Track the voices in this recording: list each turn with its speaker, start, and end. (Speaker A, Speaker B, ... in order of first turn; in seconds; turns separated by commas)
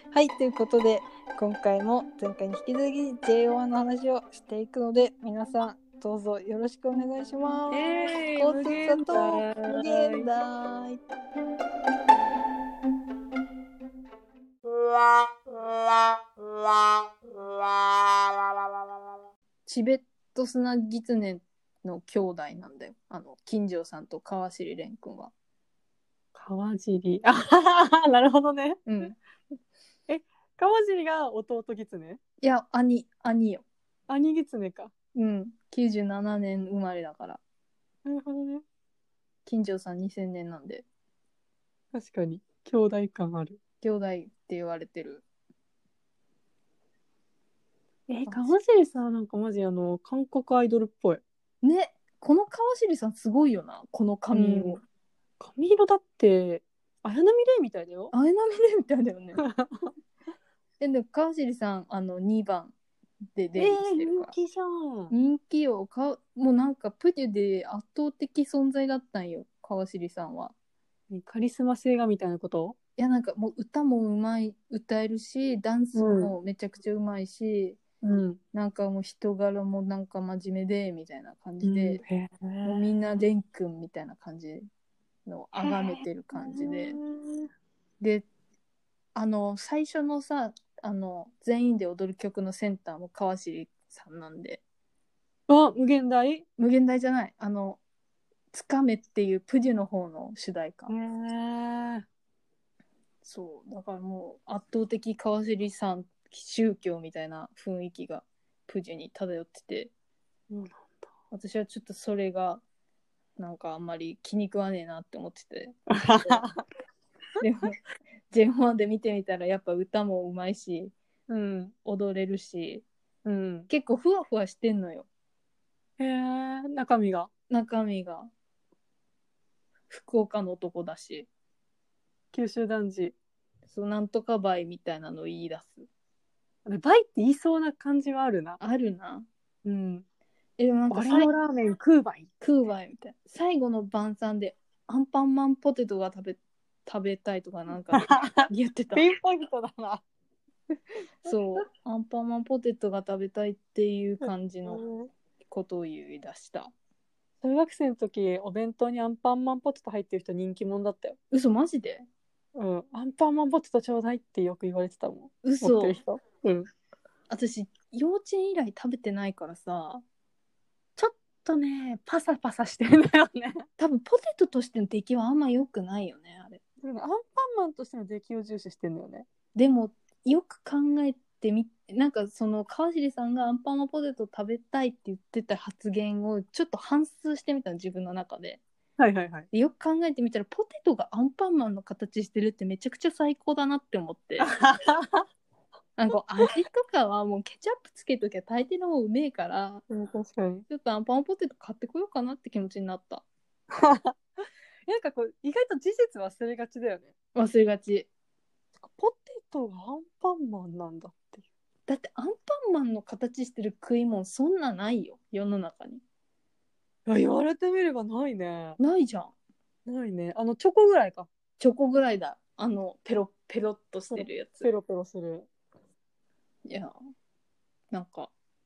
Speaker A: 0.2-0.7, Speaker B: 0.2-5.3, Speaker A: 5.0-7.8, Speaker B: 5.8-6.8, Speaker C: 7.7-10.3, Speaker A: 8.4-10.8, Speaker A: 19.6-25.3, Speaker C: 26.3-28.9, Speaker A: 28.9-29.1, Speaker C: 30.1-32.2, Speaker A: 32.4-33.6, Speaker C: 34.1-34.9, Speaker A: 35.1-37.4, Speaker C: 38.0-38.6, Speaker A: 39.5-40.8, Speaker C: 41.9-43.6, Speaker A: 43.8-45.2, Speaker C: 48.1-51.2, Speaker A: 48.3-48.5, Speaker A: 51.6-54.8, Speaker C: 54.3-54.8, Speaker C: 55.4-58.1, Speaker A: 58.1-59.4, Speaker C: 59.4-59.9, Speaker A: 60.8-62.7, Speaker A: 63.3-64.3, Speaker C: 63.6-65.1, Speaker A: 65.1-70.5, Speaker C: 71.1-72.8, Speaker A: 73.0-77.8, Speaker C: 75.9-76.3, Speaker C: 78.0-78.4, Speaker A: 78.5-82.0, Speaker C: 81.6-82.9, Speaker A: 82.6-84.7, Speaker A: 85.2-87.0, Speaker C: 85.6-87.5, Speaker A: 88.0-88.2, Speaker A: 89.1-94.6, Speaker C: 95.5-96.4, Speaker A: 96.6-97.8, Speaker A: 98.5-100.9, Speaker C: 100.9-102.0, Speaker A: 103.2-109.9, Speaker C: 110.5-111.1, Speaker A: 111.3-112.6, Speaker A: 113.4-116.5, Speaker C: 115.9-116.6, Speaker A: 117.4-117.8, Speaker A: 118.3-120.9, Speaker C: 121.3-121.7, Speaker A: 121.8-122.8, Speaker C: 123.2-123.7, Speaker A: 123.7-125.1, Speaker C: 126.0-127.3, Speaker A: 127.5-128.3, Speaker A: 129.9-131.3, Speaker C: 132.3-133.1, Speaker A: 133.7-135.9, Speaker C: 136.6-138.6, Speaker A: 138.6-139.2, Speaker C: 139.6-140.0, Speaker A: 140.6-141.3, Speaker C: 140.9-142.3, Speaker A: 142.4-149.1, Speaker C: 147.9-150.0, Speaker A: 151.2-154.8, Speaker C: 154.2-155.1, Speaker A: 155.5-156.7, Speaker C: 157.4-161.2, Speaker A: 161.3-162.1, Speaker C: 162.5-166.7, Speaker A: 165.4-166.0, Speaker A: 167.3-170.0, Speaker C: 171.0-173.7, Speaker A: 173.8-176.6, Speaker C: 176.8-179.2, Speaker A: 179.5-188.6, Speaker C: 189.0-189.5, Speaker A: 189.5-194.5, Speaker C: 194.4-195.2, Speaker A: 196.0-199.8, Speaker C: 199.9-200.7, Speaker A: 200.7-203.2, Speaker C: 203.7-207.1, Speaker A: 207.3-208.1, Speaker C: 208.8-211.4, Speaker A: 211.9-216.0, Speaker C: 217.1-218.8, Speaker A: 218.8-219.3, Speaker C: 219.8-221.3, Speaker A: 221.6-224.7, Speaker C: 224.1-225.5, Speaker A: 226.6-226.9, Speaker A: 227.9-228.3